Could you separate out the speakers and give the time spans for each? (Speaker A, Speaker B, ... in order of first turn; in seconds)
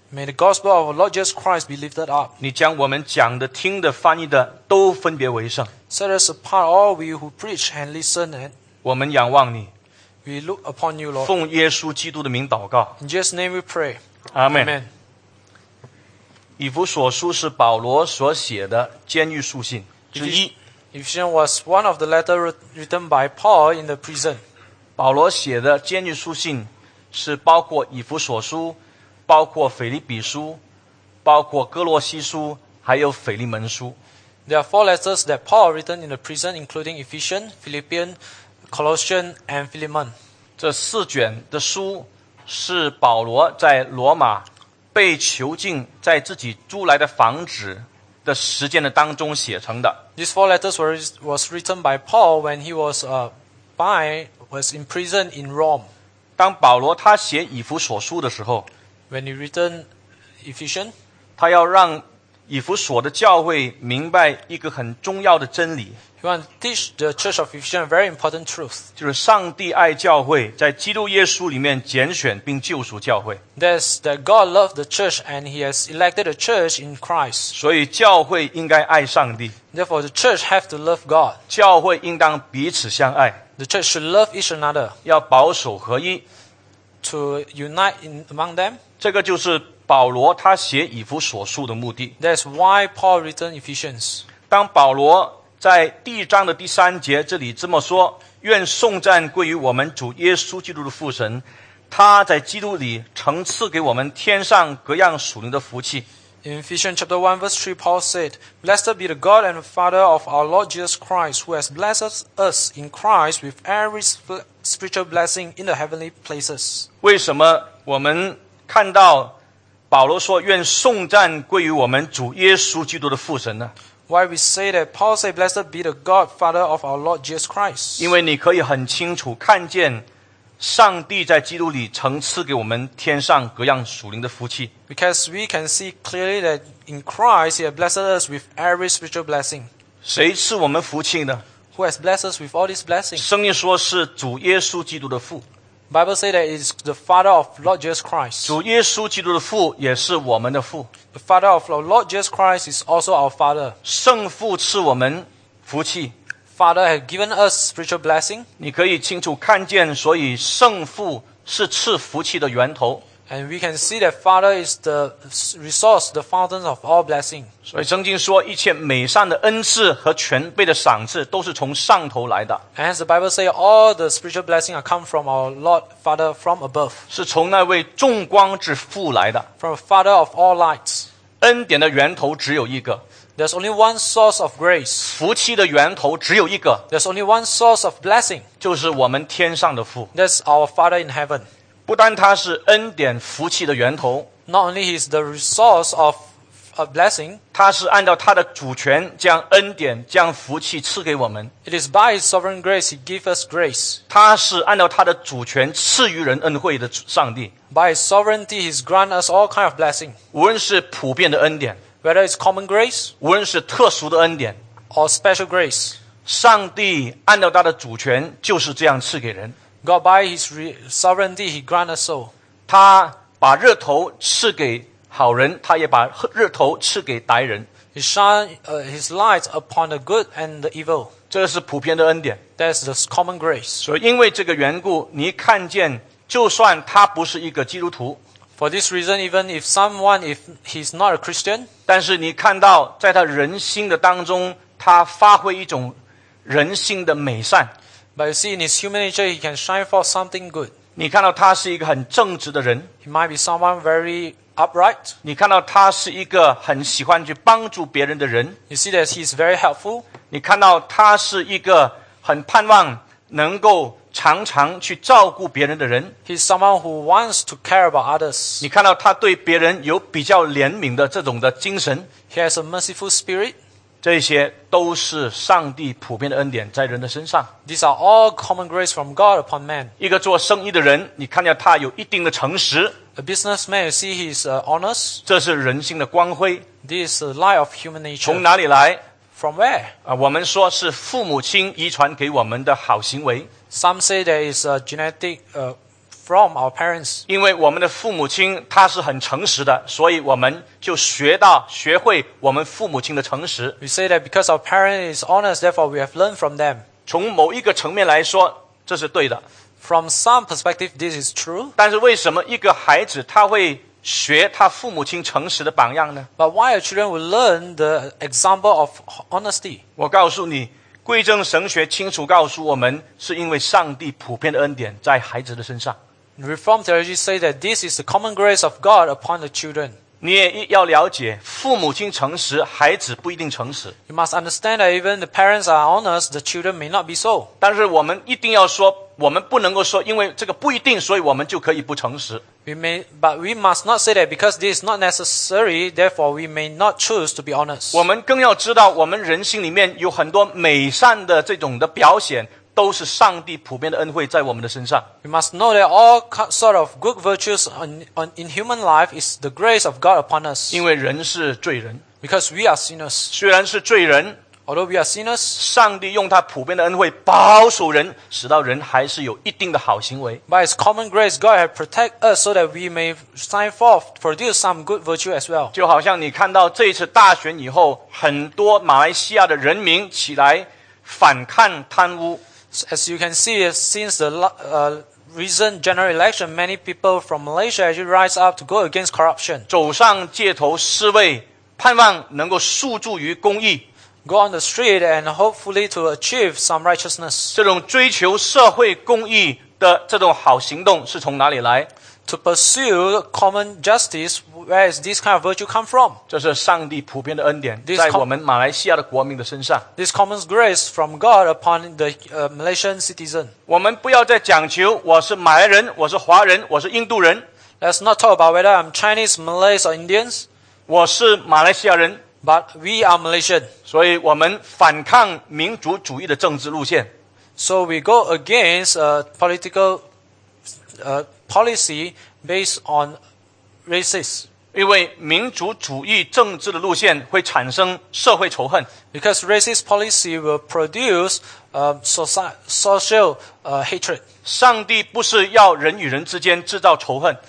Speaker A: 0.1-2.3, 5.9-8.5, 10.2-11.3, 13.0-14.0, 14.5-14.9, 20.1-24.4, 34.5-38.2, 38.7-40.1, 50.2-55.9, 59.1-59.9, 60.4-60.9, 66.2-68.9, 73.5-77.5, 79.7-81.4, 83.6-85.0, 87.0-88.8, 92.2-94.2, 106.4-116.9, 124.1-128.1, 134.9-139.7, 141.7-143.2, 145.9-148.6, 151.1-153.8, 156.6-158.5, 163.3-167.5, 172.8-177.1, 179.6-181.1, 183.3-185.2, 186.9-188.4, 190.1-191.5, 194.5-197.4, 201.6-204.0, 207.7-210.2, 212.0-213.1, 214.9-216.0, 219.8-222.3, 227.9-231.1, 232.6-233.8, 238.6-241.7, 248.2-250.7, 253.0-255.1, 258.7-260.1, 266.2-268.7, 272.3-273.6, 277.6-279.9, 283.1-285.2, 286.8-288.4, 289.3-289.9, 293.7-297.2, 303.8-306.8, 309.8-311.7, 316.4-319.8, 326.4-330.0, 334.1-337.5, 342.6-348.0, 355.2-360.8, 362.2-363.3, 364.7-365.6, 370.5-375.7, 382.7-389.7, 394.2-397.6, 402.2-406.2, 407.8-408.2, 409.9-413.5, 417.8-420.4, 422.4-423.7, 427.6-430.0, 431.0-433.2, 433.9-434.5, 439.1-444.2
Speaker B: 2.4-5.7, 8.8-9.7, 11.2-12.9, 14.3-14.7, 16.6-20.5, 25.0-30.6, 31.2-34.0, 40.6-50.0, 56.4-58.7, 61.4-66.0, 69.0-73.4, 77.5-79.5, 81.5-83.4, 85.0-86.2, 89.0-92.1, 94.5-106.0, 117.0-119.3, 119.9-123.7, 128.0-130.0, 130.6-134.7, 140.0-141.4, 143.2-145.4, 148.4-150.9, 153.8-156.1, 158.6-163.0, 167.7-172.6, 177.1-179.5, 181.4-183.0, 185.0-186.8, 188.6-190.1, 191.9-194.3, 197.5-201.5, 204.1-207.5, 210.3-211.8, 213.2-214.6, 216.2-219.6, 222.7-227.7, 231.3-232.4, 233.8-238.2, 241.9-247.7, 250.9-252.9, 255.2-258.6, 260.3-266.1, 268.6-272.1, 274.0-277.5, 280.0-282.9, 285.2-286.6, 288.2-289.0, 290.1-293.5, 297.3-303.8, 307.1-309.4, 311.8-316.3, 320.0-326.0, 330.2-333.9, 337.6-342.4, 347.9-355.1, 360.7-362.0, 363.3-364.4, 365.6-370.4, 375.7-382.4, 389.7-393.9, 397.5-401.9, 406.3-409.9, 413.7-417.4, 420.9-422.2, 423.9-427.1, 434.7-438.9, 444.4-447.4